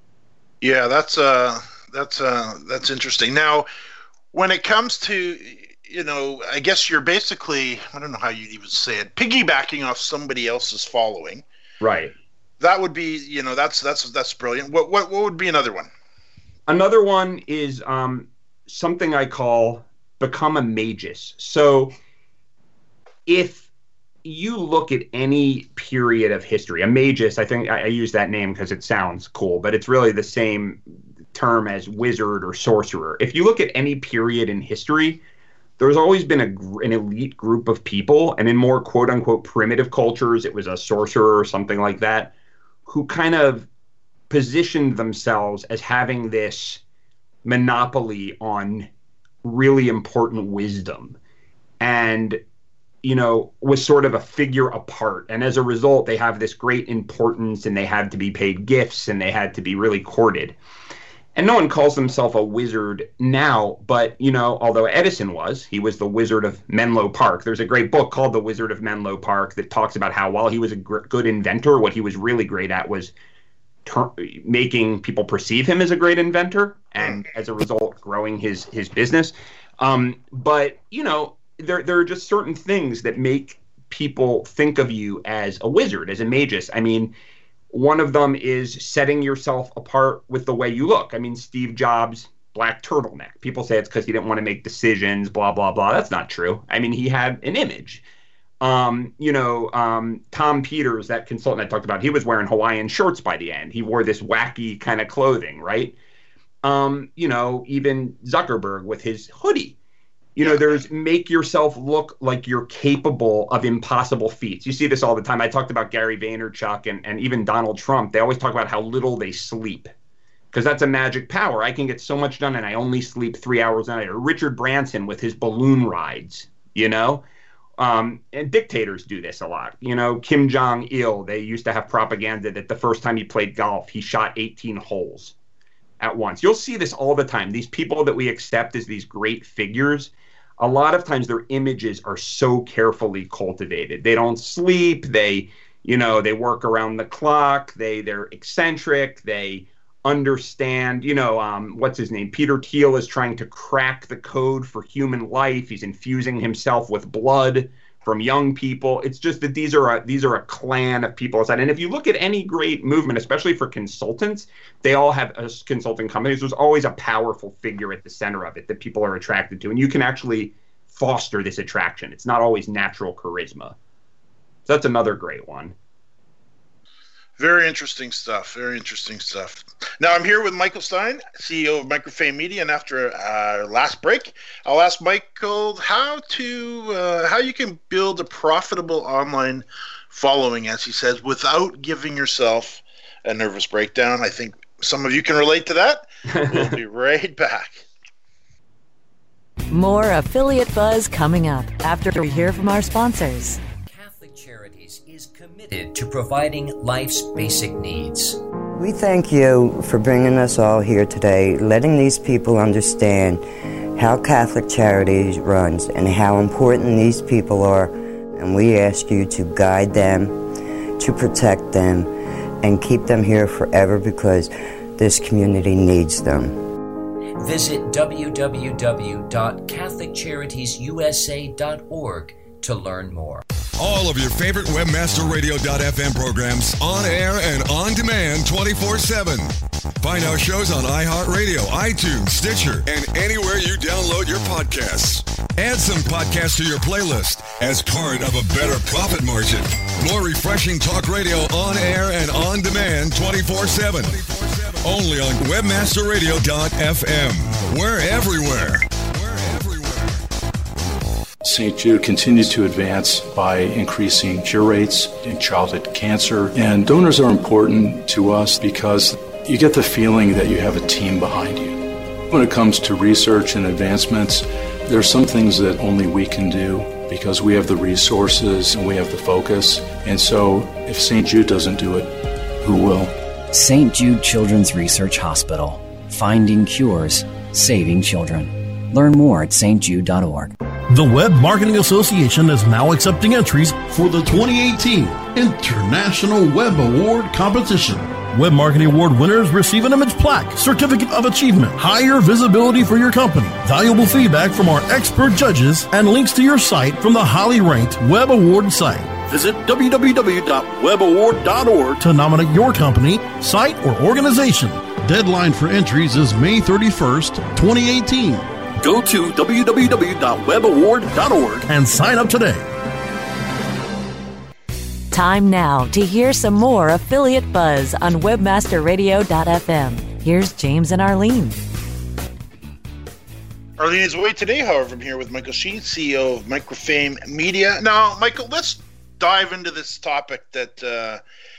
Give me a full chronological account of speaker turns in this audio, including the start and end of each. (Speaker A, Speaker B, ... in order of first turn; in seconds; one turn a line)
Speaker A: 0.6-3.7
Speaker A: 4.3-11.4
Speaker B: 11.8-12.1
Speaker A: 12.6-15.9
Speaker B: 16.7-22.0
Speaker B: 23.3-23.7
Speaker B: 24.2-30.8
Speaker B: 31.3-35.2
Speaker B: 35.8-42.3
Speaker B: 42.9-43.7
Speaker B: 44.3-46.8
Speaker B: 47.5-48.9
Speaker B: 49.4-51.2
Speaker B: 51.8-52.4
Speaker B: 53.0-60.6
Speaker B: 61.4-73.1
Speaker B: 73.8-87.1
Speaker B: 87.7-98.0
Speaker B: 98.6-106.0
Speaker B: 106.6-109.8
Speaker B: 110.4-119.9
Speaker A: 110.4-110.8
Speaker B: 120.5-127.2
Speaker B: 127.8-135.3
Speaker B: 136.0-173.8
Speaker B: 174.7-175.7
Speaker A: 177.4-197.8
Speaker B: 196.4-196.8
Speaker C: 199.7-203.6
Speaker D: 203.8-208.4
Speaker E: 208.8-213.4
Speaker E: 214.0-220.4
Speaker E: 221.0-222.1
Speaker E: 222.6-226.6
Speaker D: 227.4-233.4
Speaker F: 233.8-260.2
Speaker G: 261.4-283.2
Speaker H: 283.5-290.5
Speaker I: 290.9-322.7
Speaker C: 325.1-331.6
Speaker A: 333.8-341.2